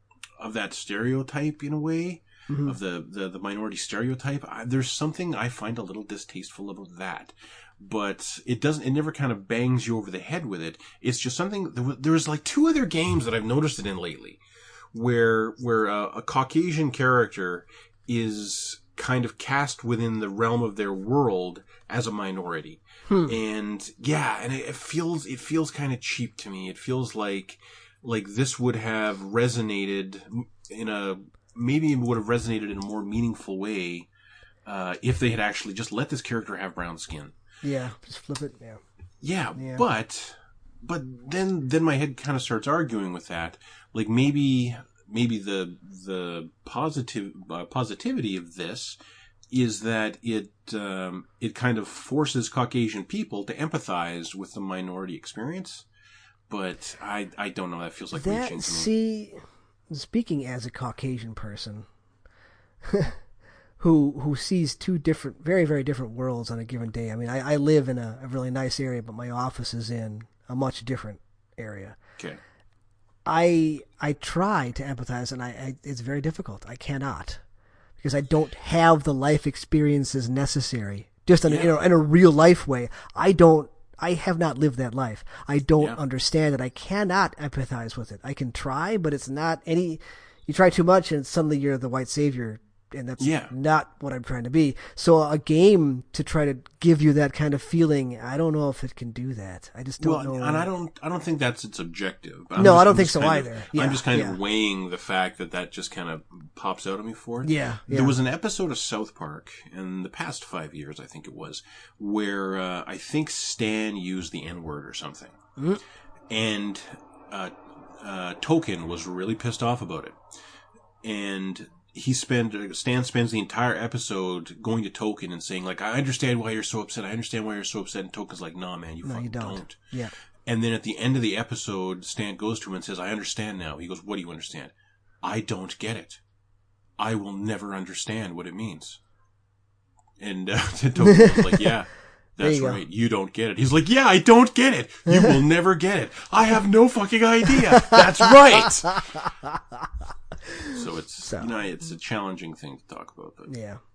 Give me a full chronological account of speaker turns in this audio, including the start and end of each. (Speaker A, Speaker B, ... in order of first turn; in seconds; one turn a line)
Speaker A: 0.4-14.4
Speaker B: 2.5-2.8
Speaker A: 14.9-34.1
Speaker A: 34.6-37.3
Speaker B: 37.6-38.8
Speaker A: 39.2-49.0
Speaker B: 39.6-39.8
Speaker A: 49.5-55.9
Speaker A: 56.5-58.9
Speaker B: 58.1-61.9
Speaker B: 62.9-63.2
Speaker B: 63.8-72.0
Speaker B: 73.3-77.4
Speaker B: 78.0-100.7
Speaker A: 81.5-81.8
Speaker A: 93.2-93.5
Speaker A: 100.0-115.4
Speaker B: 102.6-104.4
Speaker B: 107.4-108.2
Speaker A: 116.3-120.2
Speaker A: 121.0-129.8
Speaker B: 129.0-130.1
Speaker A: 130.5-136.2
Speaker A: 137.0-139.0
Speaker A: 140.2-149.2
Speaker B: 141.0-141.7
Speaker B: 142.4-142.8
Speaker B: 147.7-148.0
Speaker B: 150.5-151.5
Speaker A: 150.7-153.5
Speaker B: 153.5-153.8